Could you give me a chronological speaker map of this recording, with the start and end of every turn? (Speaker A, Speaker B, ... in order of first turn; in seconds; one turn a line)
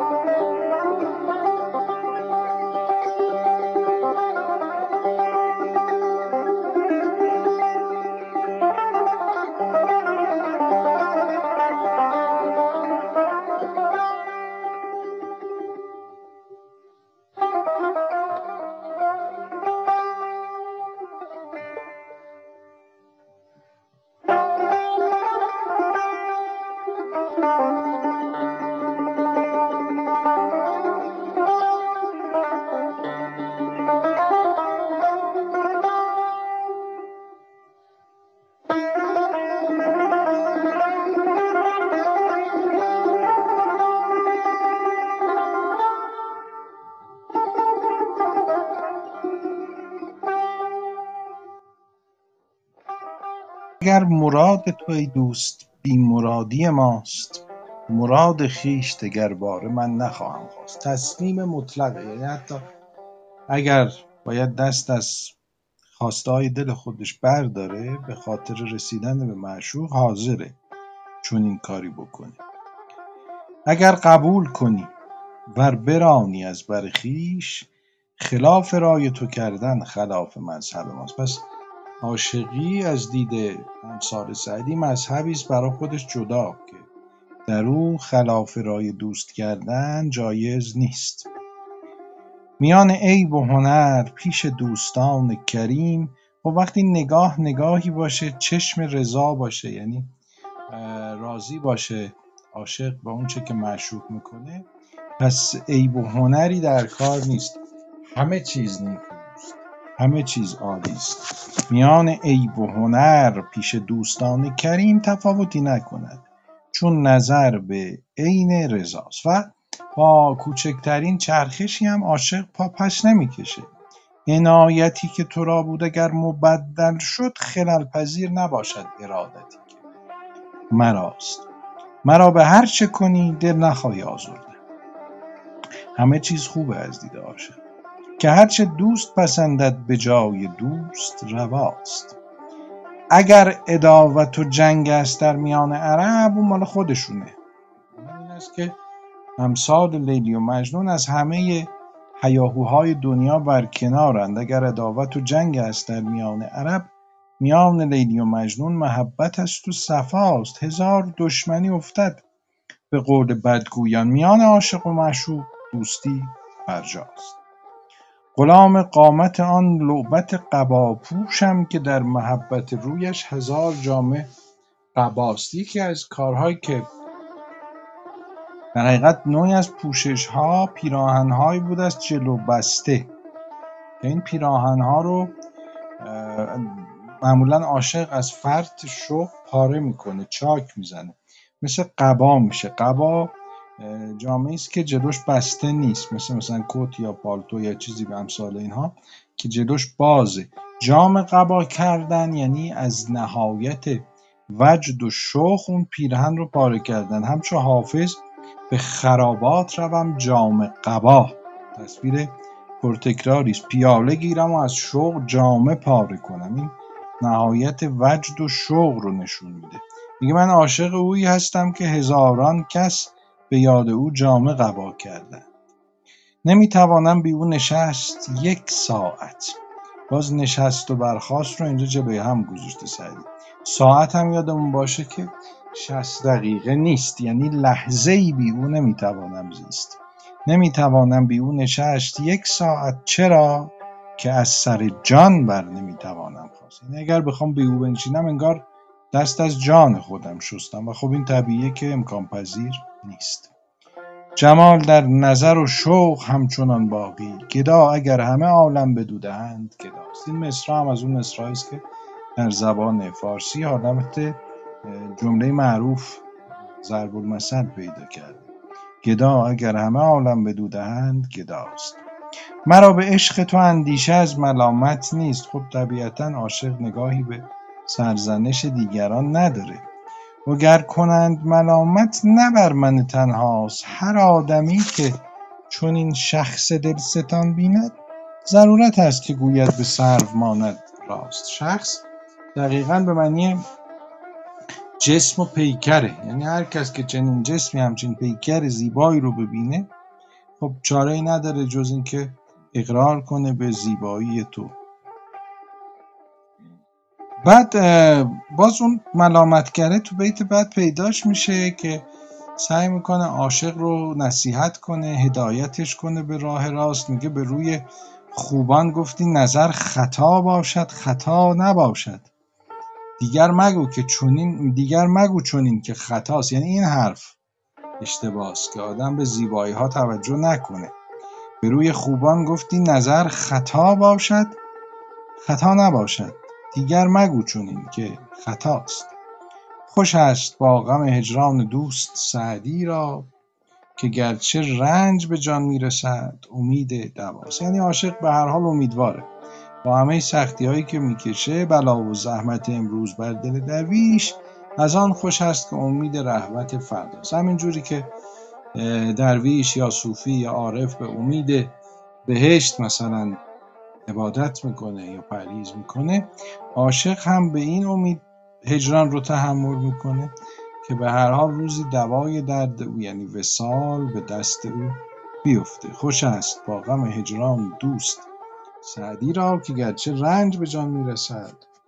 Speaker A: 53.8-62.6
Speaker A: 63.5-65.3
Speaker A: 66.0-70.6
Speaker A: 71.2-72.4
Speaker A: 73.7-74.9
Speaker A: 75.5-81.5
Speaker A: 82.0-86.9
Speaker A: 87.5-91.3
Speaker A: 92.6-100.1
Speaker A: 100.7-104.7
Speaker A: 105.2-123.7
Speaker A: 124.2-129.8
Speaker A: 130.7-131.5
Speaker A: 132.0-134.6
Speaker A: 135.9-137.6
Speaker A: 138.2-142.2
Speaker A: 143.1-147.4
Speaker A: 147.9-148.8
Speaker A: 149.4-162.2
Speaker A: 162.9-167.4
Speaker A: 168.3-174.3
Speaker A: 174.9-176.9
Speaker A: 178.7-183.1
Speaker A: 184.0-185.3
Speaker A: 186.0-225.5
Speaker A: 226.4-253.5
Speaker A: 254.3-261.8
Speaker A: 262.4-268.5
Speaker A: 269.0-272.0
Speaker A: 272.6-279.8
Speaker A: 280.4-293.6
Speaker A: 295.0-299.9
Speaker A: 300.6-304.8
Speaker A: 307.4-322.3
Speaker A: 323.2-327.4
Speaker A: 328.0-330.9
Speaker A: 331.6-334.6
Speaker A: 335.4-339.1
Speaker A: 339.9-343.3
Speaker A: 344.0-349.3
Speaker A: 349.8-358.1
Speaker A: 358.7-363.4
Speaker A: 364.1-378.3
Speaker A: 378.8-381.6